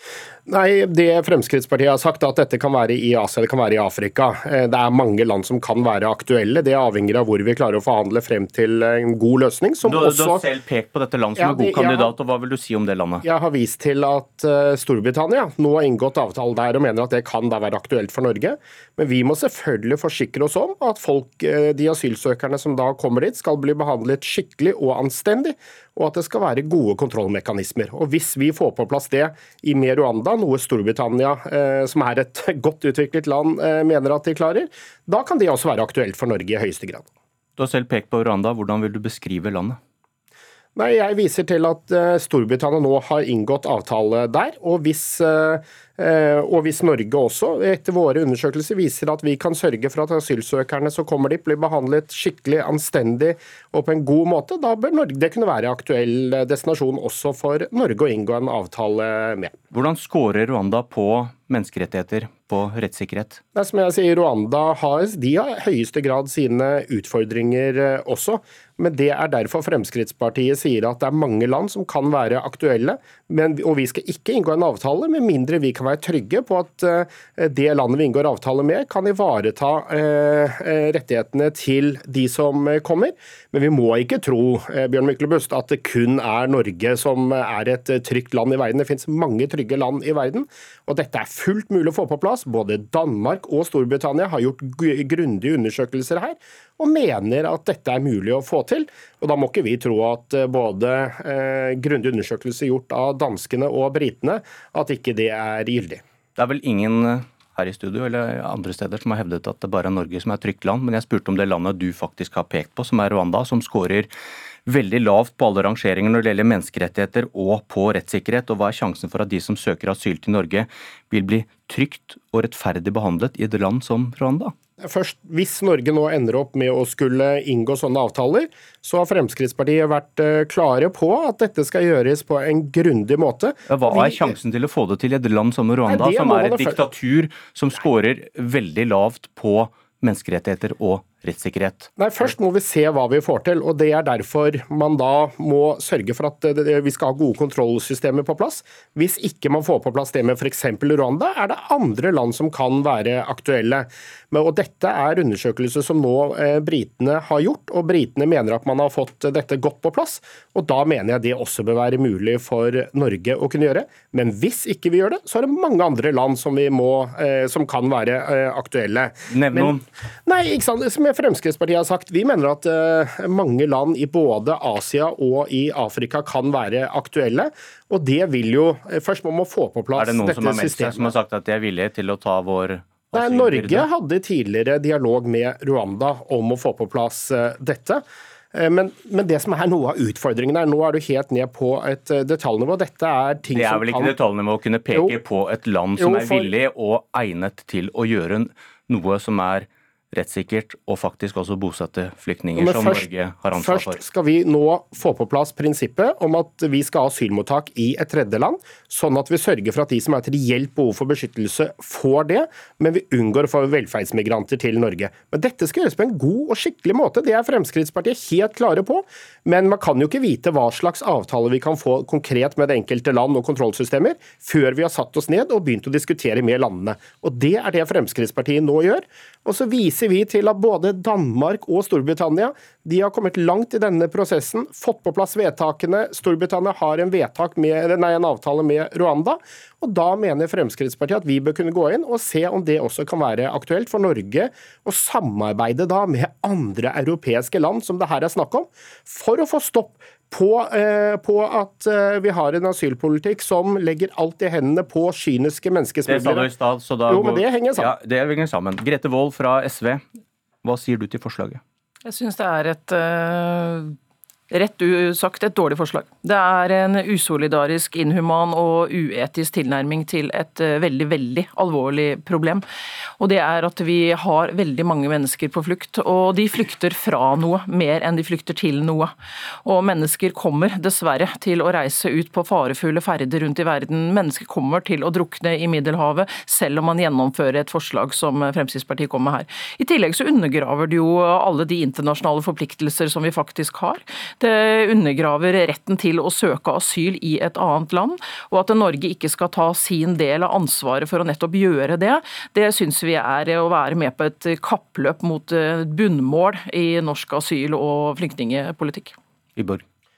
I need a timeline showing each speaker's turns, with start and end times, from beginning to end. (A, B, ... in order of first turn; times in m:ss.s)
0:00.5-0:10.5 A
0:09.8-0:13.2 B
0:11.4-0:12.1 A
0:13.2-0:37.1 A
0:37.6-0:39.8 B
0:40.8-0:59.6 A
0:59.7-1:03.4 B
1:03.5-1:46.0 A
1:46.4-1:54.1 B
1:54.7-2:04.5 B
2:04.8-2:14.3 A
2:13.7-2:21.9 B
2:15.9-2:16.8 A
2:22.0-3:01.1 A
2:49.3-2:49.8 B
2:59.9-3:03.9 B
3:03.1-3:08.0 A
3:08.5-3:14.2 A
3:13.5-3:24.0 B
3:16.0-3:16.5 A
3:22.6-4:16.5 A
4:16.0-4:20.0 B
4:17.1-4:17.9 A
4:20.6-4:21.6 B
4:22.0-4:23.9 C
4:24.5-4:32.6 C
4:33.2-5:09.1 C
5:09.6-5:09.8 B